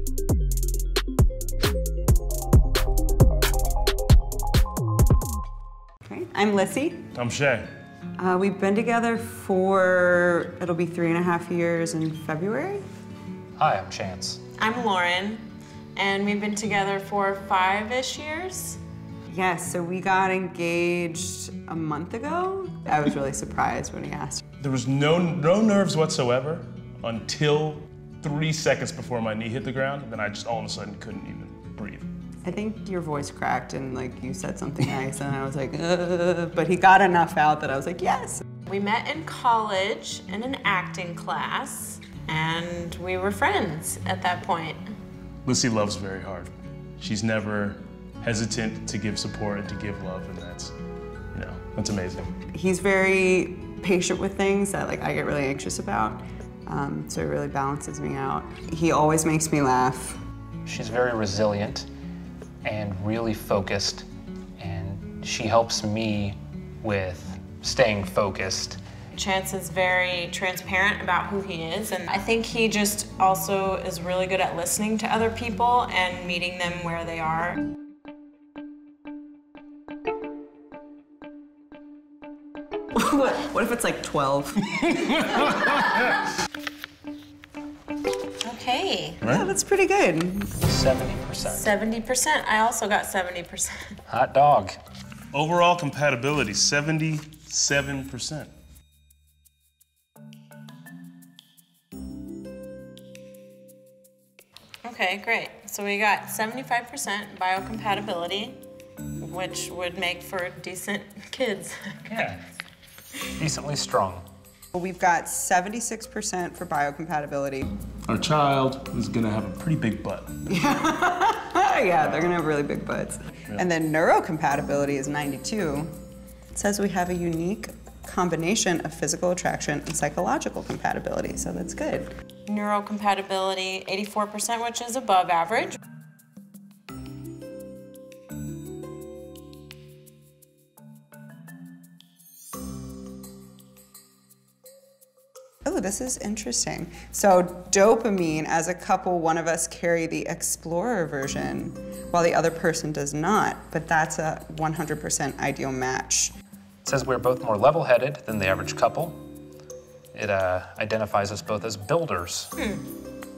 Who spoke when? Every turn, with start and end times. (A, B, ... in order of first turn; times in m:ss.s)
0:06.1-0:07.1 A
0:07.2-0:07.7 B
0:08.2-0:12.8 A
0:13.6-0:14.4 C
0:14.6-0:18.8 D
0:19.3-0:24.4 A
0:24.6-0:32.1 B
0:32.4-0:38.4 A
0:38.7-0:44.8 D
0:45.5-0:50.7 B
0:51.3-0:52.3 B
0:52.5-1:00.2 A
1:00.7-1:01.9 C
1:02.6-1:04.1 C
1:04.6-1:08.8 C
1:09.1-1:17.6 D
1:23.0-1:25.7 A
1:28.4-1:29.2 D
1:29.2-1:29.5 B
1:29.2-1:30.5 A
1:30.6-1:31.7 C
1:31.4-1:33.9 D
1:34.1-1:34.8 C
1:35.3-1:38.5 B
1:44.8-1:48.6 D
1:49.2-1:52.2 D
1:52.1-1:52.4 C
1:53.3-1:54.2 C
1:54.7-1:57.7 A
1:58.1-2:00.4 B
2:00.5-2:05.9 A
2:06.5-2:12.1 A
2:12.5-2:15.8 D
2:25.7-2:36.3 A
2:36.8-2:39.2 C
2:40.1-2:42.5 C
2:42.6-2:42.8 D